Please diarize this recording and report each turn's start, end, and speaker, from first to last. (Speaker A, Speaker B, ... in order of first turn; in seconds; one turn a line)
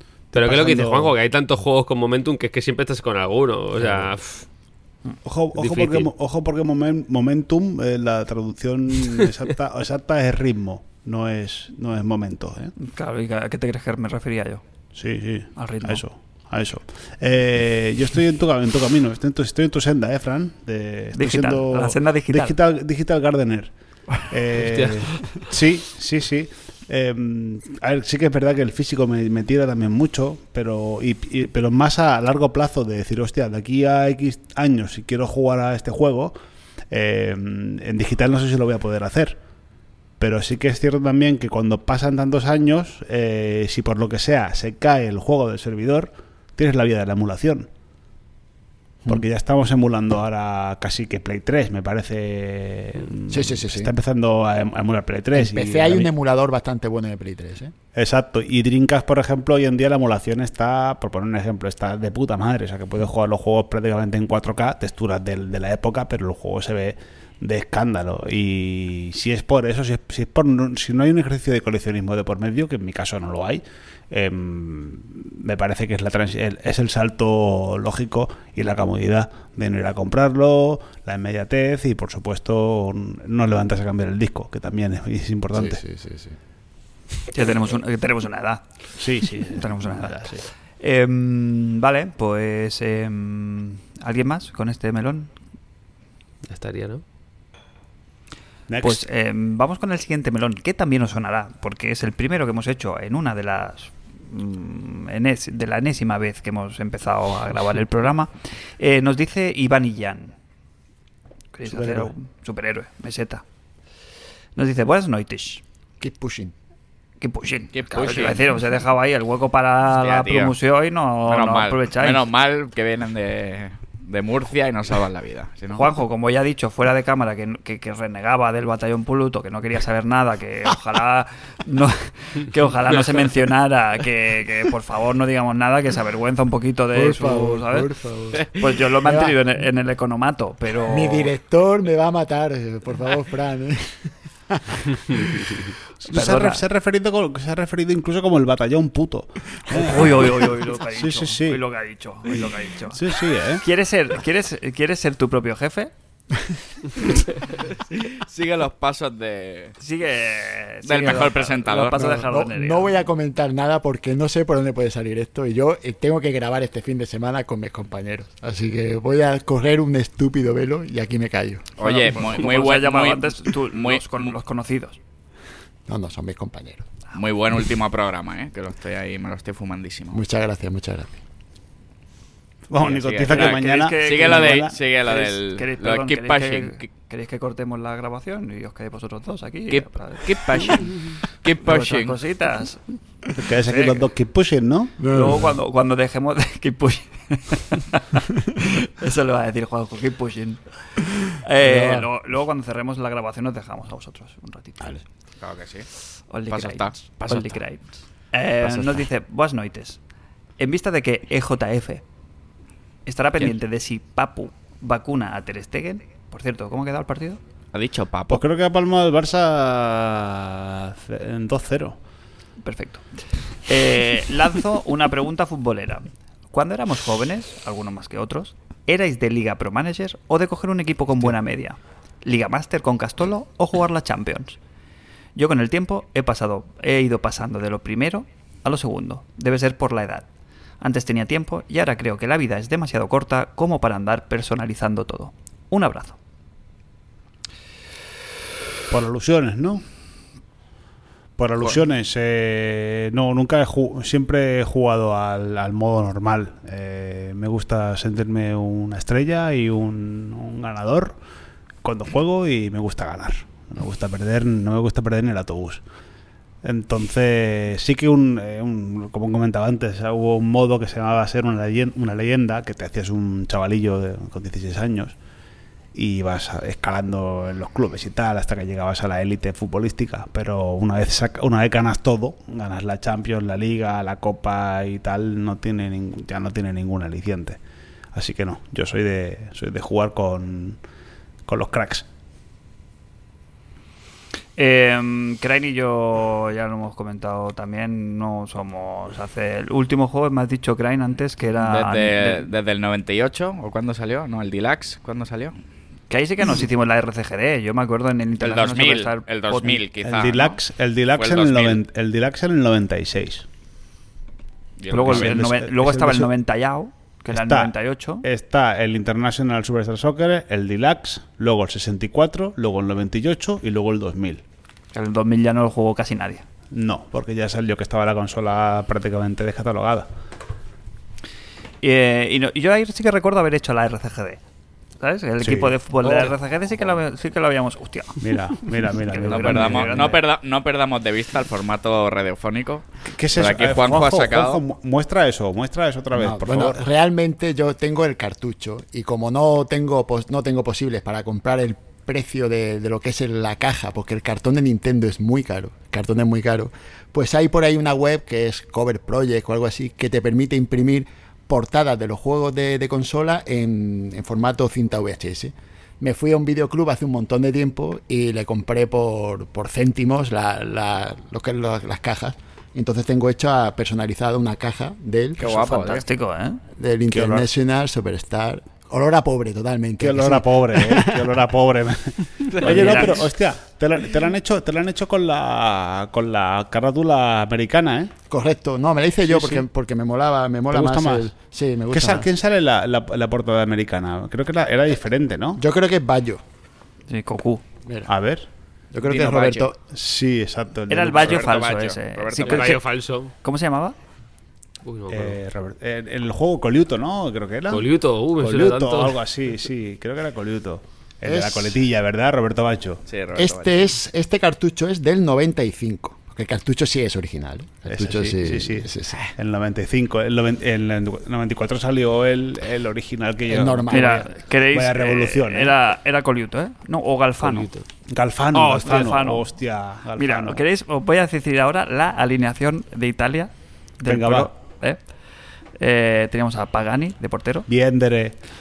Speaker A: 0.3-4.4
Speaker B: 0.3-1.1
Speaker B: 5.2-12.7
Speaker A: 5.5-6.1
Speaker C: 12.8-14.6
Speaker B: 14.9-36.4
Speaker C: 15.6-16.0
Speaker C: 21.1-22.6
Speaker B: 36.9-39.4
Speaker B: 40.2-47.7
Speaker B: 49.1-56.1
Speaker D: 53.3-53.9
Speaker D: 55.3-57.7
Speaker B: 57.9-85.8
Speaker D: 85.5-86.3
Speaker C: 87.3-88.6
Speaker B: 89.0-90.4
Speaker C: 89.2-95.3
Speaker A: 96.5-97.0
Speaker B: 98.7-99.1
Speaker C: 98.8-110.3
Speaker C: 111.5-113.4
Speaker B: 111.7-112.1
Speaker C: 114.5-115.6
Speaker D: 116.0-116.5
Speaker C: 117.2-122.2
Speaker E: 117.7-118.4
Speaker E: 120.0-120.5
Speaker E: 121.2-125.9
Speaker C: 125.7-141.3
Speaker D: 136.9-139.4
Speaker D: 140.8-145.5
Speaker B: 146.0-151.6
Speaker C: 146.1-146.6
Speaker C: 149.7-155.9
Speaker B: 152.9-153.6
Speaker E: 157.6-159.7
Speaker C: 159.8-163.0
Speaker E: 160.8-162.1
Speaker D: 161.9-171.8
Speaker E: 171.8-174.3
Speaker C: 171.8-175.0
Speaker D: 175.9-176.8
Speaker E: 177.1-180.2
Speaker D: 180.1-181.2
Speaker B: 182.7-184.8
Speaker E: 182.8-186.8
Speaker C: 183.3-190.9
Speaker E: 189.7-192.2
Speaker C: 191.6-192.8
Speaker B: 193.3-195.0
Speaker C: 193.7-194.0
Speaker D: 195.0-195.5
Speaker C: 195.1-205.0
Speaker D: 201.6-202.1
Speaker E: 205.4-205.9
Speaker C: 206.3-210.0
Speaker E: 206.5-207.6
Speaker C: 210.6-212.0
Speaker C: 213.1-217.4
Speaker E: 217.7-218.4
Speaker B: 218.3-222.0
Speaker C: 222.6-223.1
Speaker C: 223.7-234.6
Speaker C: 235.3-240.3
Speaker C: 240.8-246.2
Speaker B: 248.9-249.8
Speaker B: 251.4-261.1
Speaker B: 261.8-265.8
Speaker B: 266.6-275.1
Speaker B: 275.9-287.6
Speaker B: 288.1-290.8
Speaker B: 291.5-292.1
Speaker C: 294.6-302.5
Speaker E: 301.6-305.6
Speaker C: 306.1-309.8
Speaker E: 308.4-310.6
Speaker B: 310.0-313.4
Speaker E: 311.1-311.8
Speaker E: 314.8-315.4
Speaker C: 314.9-318.2
Speaker B: 315.0-316.3
Speaker B: 317.3-324.4
Speaker C: 324.9-326.4
Speaker B: 326.7-330.1
Speaker C: 331.8-334.4
Speaker C: 335.0-338.4
Speaker B: 335.4-336.3
Speaker B: 338.2-340.2
Speaker C: 338.9-340.2
Speaker E: 339.3-344.6
Speaker B: 343.1-346.8
Speaker D: 346.1-376.0
Speaker E: 375.4-376.1
Speaker C: 375.4-376.6
Speaker D: 376.7-381.3
Speaker B: 377.1-377.4
Speaker B: 380.0-388.1
Speaker D: 382.6-383.1
Speaker C: 382.6-383.2
Speaker D: 388.3-392.3
Speaker B: 389.3-389.6
Speaker B: 390.7-391.3
Speaker B: 391.9-395.6
Speaker D: 395.6-396.4
Speaker C: 397.1-397.6
Speaker D: 397.8-398.1
Speaker B: 398.1-398.5
Speaker D: 398.9-399.8
Speaker E: 399.1-399.7
Speaker B: 399.8-401.6
Speaker C: 400.9-403.9
Speaker E: 401.1-402.8
Speaker A: 402.3-403.3
Speaker A: 404.8-405.4
Speaker B: 405.1-413.0
Speaker A: 407.7-409.2
Speaker D: 411.2-411.8
Speaker E: 413.1-413.8
Speaker D: 413.3-419.3
Speaker B: 417.9-425.8
Speaker D: 423.5-424.2
Speaker C: 423.9-427.7
Speaker A: 427.4-427.8
Speaker B: 428.1-430.6
Speaker C: 428.5-429.4
Speaker C: 430.1-435.0
Speaker B: 434.1-434.5
Speaker C: 435.8-437.7
Speaker B: 437.7-438.4